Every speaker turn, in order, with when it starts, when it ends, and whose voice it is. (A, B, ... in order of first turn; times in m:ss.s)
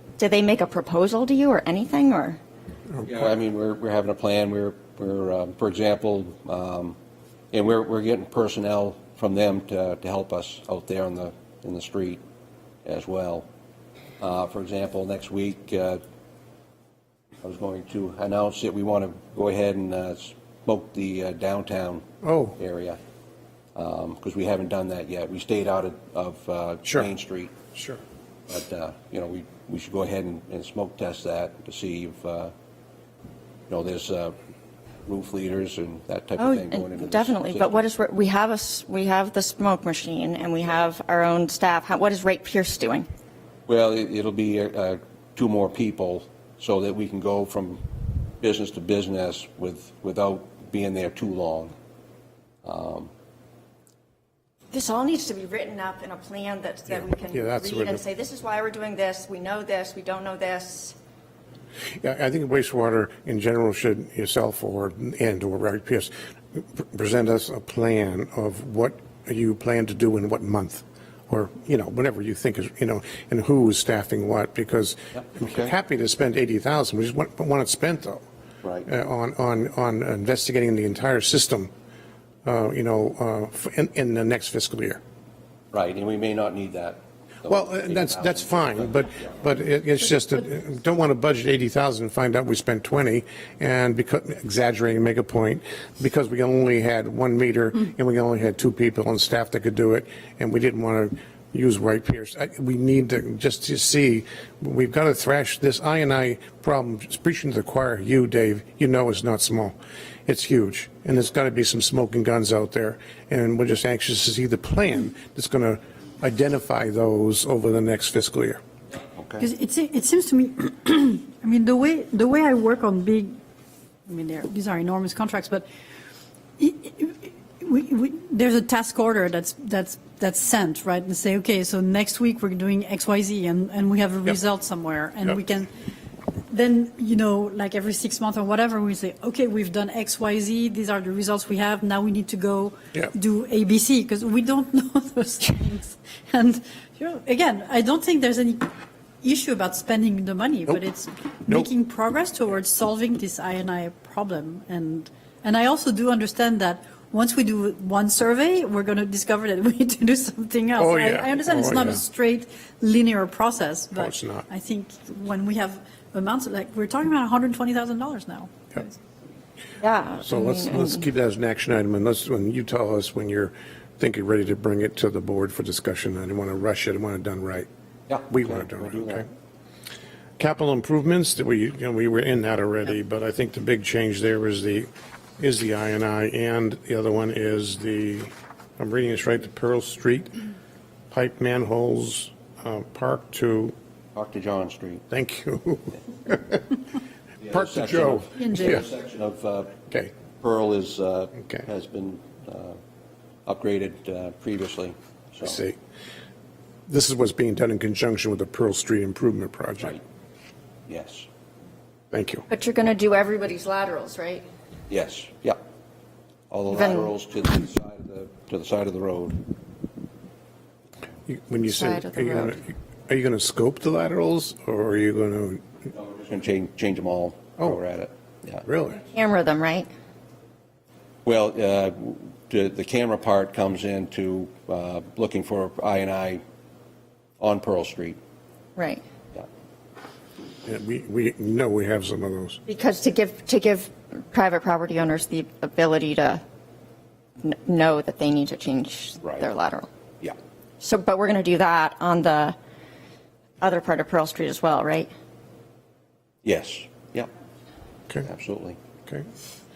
0:00.2-0:02.4 A
0:03.0-0:07.0 B
0:07.5-0:12.2 B
0:12.8-0:13.5 B
0:14.2-0:16.0 B
0:17.4-0:22.0 B
0:22.2-0:22.6 C
0:22.6-0:23.0 B
0:23.8-0:27.5 B
0:26.8-0:27.1 C
0:27.7-0:28.0 C
0:28.5-0:32.5 B
0:33.7-0:34.3 B
0:35.0-0:37.8 B
0:36.4-0:43.1 A
0:43.7-0:47.8 B
0:48.4-0:51.7 B
0:52.6-0:53.1 B
0:54.7-1:01.0 A
0:57.2-0:58.0 C
1:02.0-1:18.2 C
1:15.2-1:15.7 B
1:18.8-1:21.7 C
1:22.4-1:25.0 C
1:25.7-1:29.1 B
1:27.4-1:58.6 C
1:59.2-1:59.5 B
1:59.4-2:03.4 D
2:04.0-2:05.7 D
2:06.6-2:15.7 D
2:16.5-2:49.0 D
2:40.8-2:42.0 C
2:44.0-2:44.4 C
2:49.8-2:51.0 A
2:50.2-2:57.7 C
2:58.1-2:59.2 B
2:58.3-2:59.3 C
3:00.4-3:10.3 C
3:11.1-3:13.7 C
3:14.1-3:15.0 B
3:15.1-3:16.7 C
3:17.4-3:19.7 B
3:17.5-3:18.8 C
3:18.4-3:18.8 D
3:20.4-3:22.8 B
3:23.4-3:25.6 B
3:25.4-3:25.8 C
3:26.9-3:30.0 C
3:30.9-3:31.3 B
3:32.1-3:32.4 C
3:32.5-3:34.4 A
3:34.9-3:35.6 B
3:36.5-3:39.4 B
3:36.7-3:37.1 A
3:41.3-3:45.6 C
3:41.7-3:42.6 A
3:45.9-3:48.6 B
3:48.6-3:49.0 C
3:49.0-3:49.9 A
3:51.2-3:56.4 B
3:57.4-3:58.2 B
3:58.8-3:59.0 A
4:00.6-4:02.6 C
4:02.7-4:06.4 A
4:07.4-4:09.9 A
4:10.8-4:12.5 A
4:13.6-4:15.1 A
4:16.4-4:17.3 B
4:18.2-4:18.8 B